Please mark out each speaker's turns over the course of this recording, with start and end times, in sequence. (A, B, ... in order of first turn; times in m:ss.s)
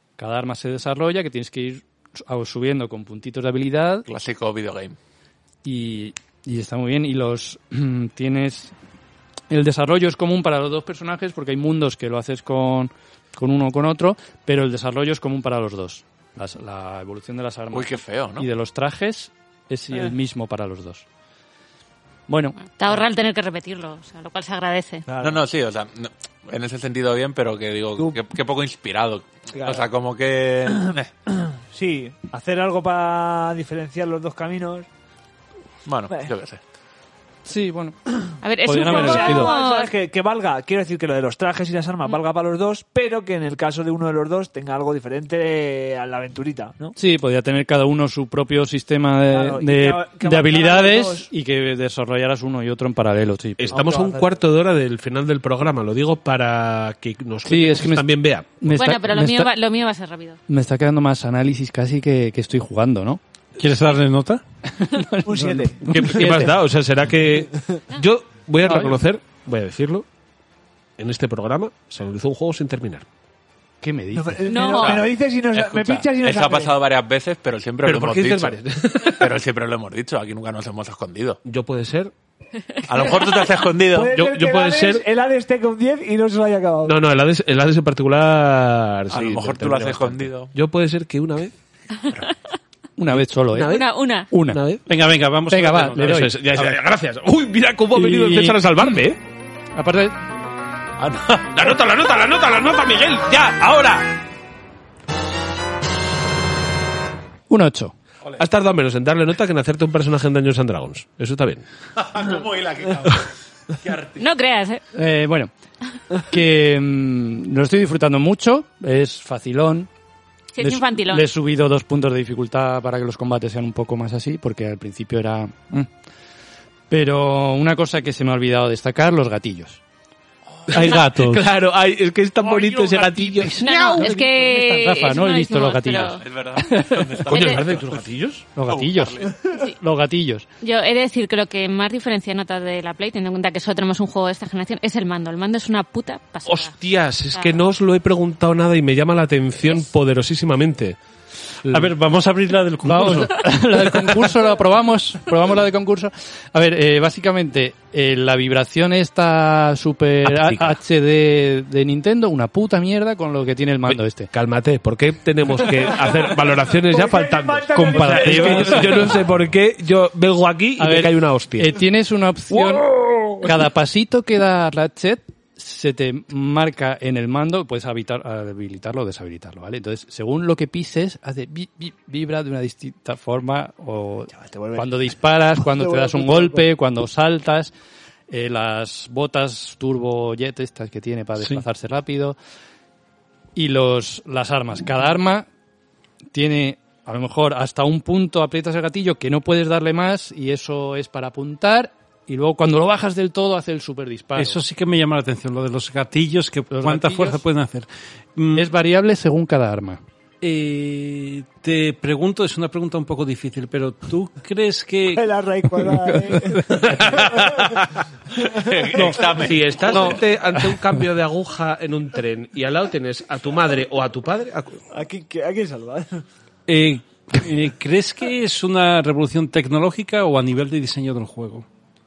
0:00.2-0:04.1 A
0:04.1-0:05.0 B
0:05.6-0:08.7 A
0:09.5-0:21.0 A
0:17.7-0:18.5 B
0:22.3-0:22.7 A
0:22.6-0:25.0 C
0:25.1-0:25.4 D
0:25.2-0:31.0 B
0:29.5-0:29.9 D
0:30.8-0:34.9 D
0:35.8-0:36.6 B
0:37.4-0:39.5 A
0:38.4-0:39.9 C
0:38.8-0:47.0 D
0:47.0-0:53.8 A
0:49.3-0:51.3 D
0:53.6-0:58.6 E
0:53.7-0:54.4 D
0:57.4-0:58.1 A
0:58.6-0:59.5 A
0:58.7-1:00.4 C
1:00.5-1:03.2 A
1:03.6-1:04.4 F
1:04.7-1:06.5 A
1:05.2-1:06.1 D
1:05.9-1:10.0 E
1:08.6-1:09.0 A
1:11.0-1:13.0 E
1:13.8-1:14.5 A
1:14.2-1:16.7 D
1:14.5-1:15.0 C
1:14.8-1:21.4 B
1:17.8-1:19.3 E
1:21.4-1:22.1 E
1:22.9-1:24.1 B
1:23.9-1:26.9 D
1:24.1-1:25.0 E
1:26.8-1:31.5 E
1:29.1-1:30.5 B
1:33.0-1:34.6 A
1:33.1-1:33.9 E
1:33.6-1:34.3 C
1:34.4-1:34.8 E
1:34.9-1:36.3 F
1:35.5-1:36.8 A
1:36.0-1:39.2 E
1:37.9-1:39.0 A
1:39.7-1:40.2 A
1:41.0-1:41.5 B
1:41.5-1:44.1 E
1:47.5-1:47.9 A
1:48.3-1:51.6 E
1:52.0-1:54.2 B
1:54.2-1:54.8 C
1:54.9-1:55.5 A
1:56.1-1:59.9 A
2:00.5-2:01.2 C
2:00.6-2:05.9 A
2:06.9-2:09.8 A
2:10.7-2:11.4 F
2:10.7-2:13.6 E
2:12.4-2:17.3 A
2:13.6-2:16.2 C
2:16.2-2:18.0 B
2:17.3-2:18.4 E
2:17.3-2:17.6 C
2:18.6-2:20.5 A
2:18.6-2:19.4 B
2:20.6-2:26.7 C
2:26.4-2:31.0 E
2:27.3-2:27.6 C
2:31.7-2:34.3 F
2:32.8-2:44.3 A
2:40.2-2:40.8 E
2:43.9-2:51.8 E
2:46.6-2:48.9 D
2:47.8-2:49.2 A
2:47.8-2:49.1 F
2:50.8-2:52.9 A
2:52.5-2:53.5 E
2:53.4-3:07.7 A
3:04.3-3:06.7 D
3:08.3-3:12.4 A
3:11.4-3:11.6 F
3:13.5-3:15.4 A
3:16.3-3:24.6 A
3:24.4-3:28.7 F
3:26.7-3:27.4 A
3:28.5-3:30.0 A
3:30.4-3:35.2 F
3:35.2-3:37.7 D
3:36.8-3:37.9 E
3:38.4-3:40.2 B
3:38.6-3:39.1 D
3:39.4-3:44.8 E
3:44.9-3:46.2 D
3:46.7-3:51.6 F